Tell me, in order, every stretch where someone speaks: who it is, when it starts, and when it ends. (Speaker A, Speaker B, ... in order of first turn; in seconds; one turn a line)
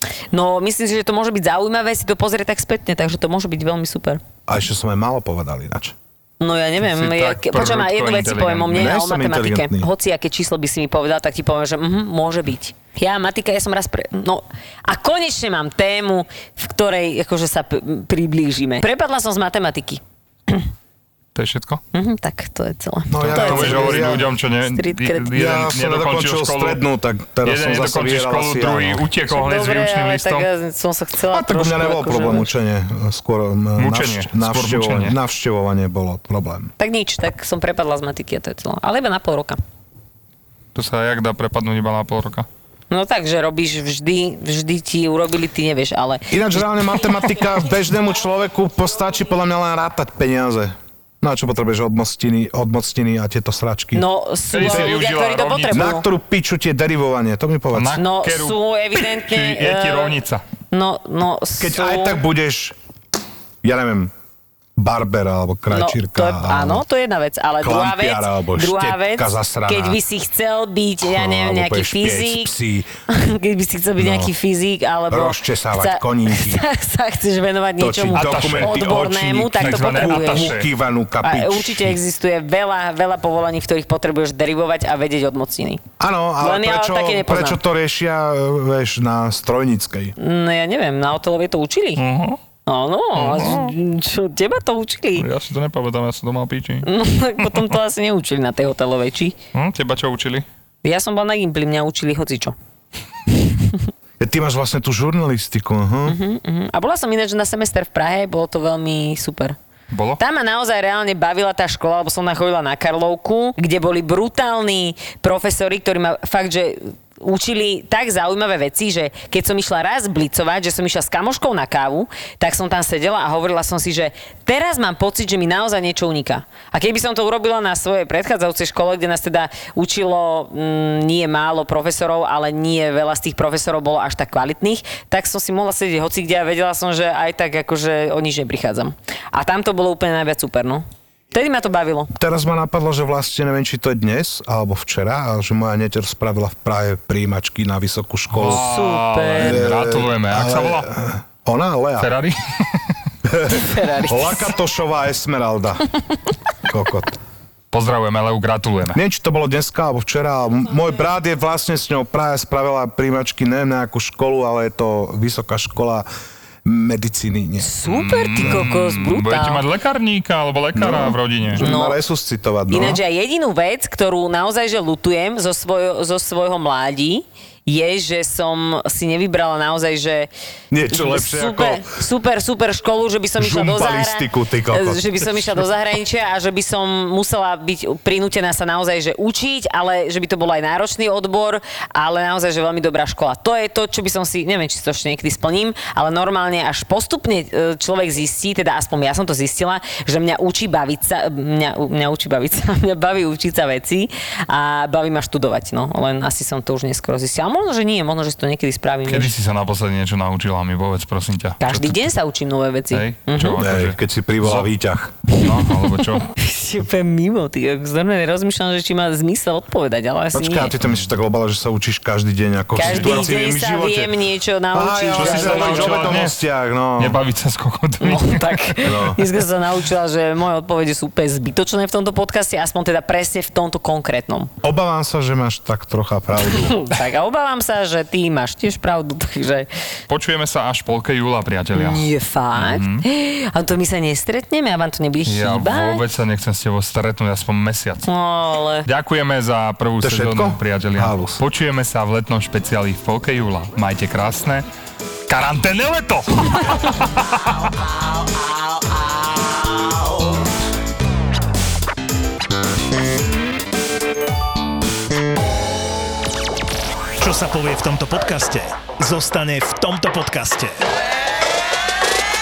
Speaker A: 0.3-4.2
Speaker B: 4.5-6.0
Speaker A: 6.4-20.7
Speaker C: 6.8-8.8
Speaker B: 8.7-9.9
Speaker C: 21.4-21.8
Speaker A: 21.9-25.3
Speaker B: 23.1-24.3
Speaker C: 23.2-26.8
Speaker B: 25.3-29.1
Speaker C: 27.4-30.5
Speaker A: 29.3-32.5
Speaker B: 31.3-36.7
Speaker C: 33.8-35.2
Speaker A: 36.8-39.6
Speaker C: 40.8-42.5
Speaker A: 42.9-47.2
Speaker B: 46.3-54.1
Speaker A: 53.9-56.1
Speaker C: 54.5-55.8
Speaker B: 54.6-55.0
Speaker B: 55.7-58.0
Speaker C: 57.7-60.4
Speaker A: 58.0-60.2
Speaker A: 60.7-62.2
Speaker B: 61.6-62.8
Speaker B: 63.6-64.1
Speaker B: 64.8-66.8
Speaker A: 65.7-72.5
Speaker B: 67.6-70.0
Speaker B: 71.0-72.9
Speaker A: 73.1-80.6
Speaker B: 74.0-74.3
Speaker B: 75.1-76.6
Speaker B: 77.8-82.0
Speaker C: 78.1-78.8
Speaker C: 79.5-80.7
Speaker A: 81.2-85.8
Speaker B: 86.0-90.2
Speaker A: 86.4-87.6
Speaker A: 90.2-92.0
Speaker C: 92.0-92.4
Speaker A: 92.7-95.3
Speaker C: 93.1-93.7
Speaker C: 95.2-96.9
Speaker A: 96.8-99.4
Speaker C: 97.4-97.7
Speaker C: 99.5-100.5
Speaker A: 100.8-102.5
Speaker B: 104.2-106.2
Speaker A: 106.1-109.6
Speaker C: 109.9-110.2
Speaker A: 110.2-142.1
Speaker B: 142.2-148.7
Speaker C: 148.3-150.9
Speaker A: 148.5-149.6
Speaker B: 149.4-152.1
Speaker C: 152.0-152.9
Speaker B: 153.2-155.8
Speaker A: 153.5-154.5
Speaker B: 156.7-157.2
Speaker C: 157.7-159.0
Speaker B: 158.9-166.1
Speaker B: 166.7-167.8
Speaker A: 167.6-169.7
Speaker C: 167.8-171.7
Speaker B: 168.4-168.7
Speaker B: 170.8-173.0
Speaker A: 171.6-172.0
Speaker A: 172.7-180.3
Speaker B: 180.7-181.8
Speaker A: 180.9-209.3
Speaker B: 183.4-185.6
Speaker C: 209.1-212.0
Speaker A: 211.6-213.7
Speaker C: 212.9-214.7
Speaker B: 213.6-215.2
Speaker C: 215.3-216.3
Speaker A: 215.5-220.7
Speaker B: 220.3-224.2
Speaker A: 222.8-226.2
Speaker C: 222.8-223.2
Speaker B: 224.7-227.2
Speaker C: 225.2-226.4
Speaker C: 227.0-228.8
Speaker A: 228.0-234.5
Speaker B: 228.8-229.2
Speaker B: 234.6-236.8
Speaker A: 236.5-239.7
Speaker C: 240.1-243.1
Speaker A: 241.7-246.0
Speaker C: 245.3-248.1
Speaker A: 248.1-248.9
Speaker C: 248.8-254.7
Speaker B: 250.0-251.4
Speaker C: 255.3-257.6
Speaker D: 267.2-270.8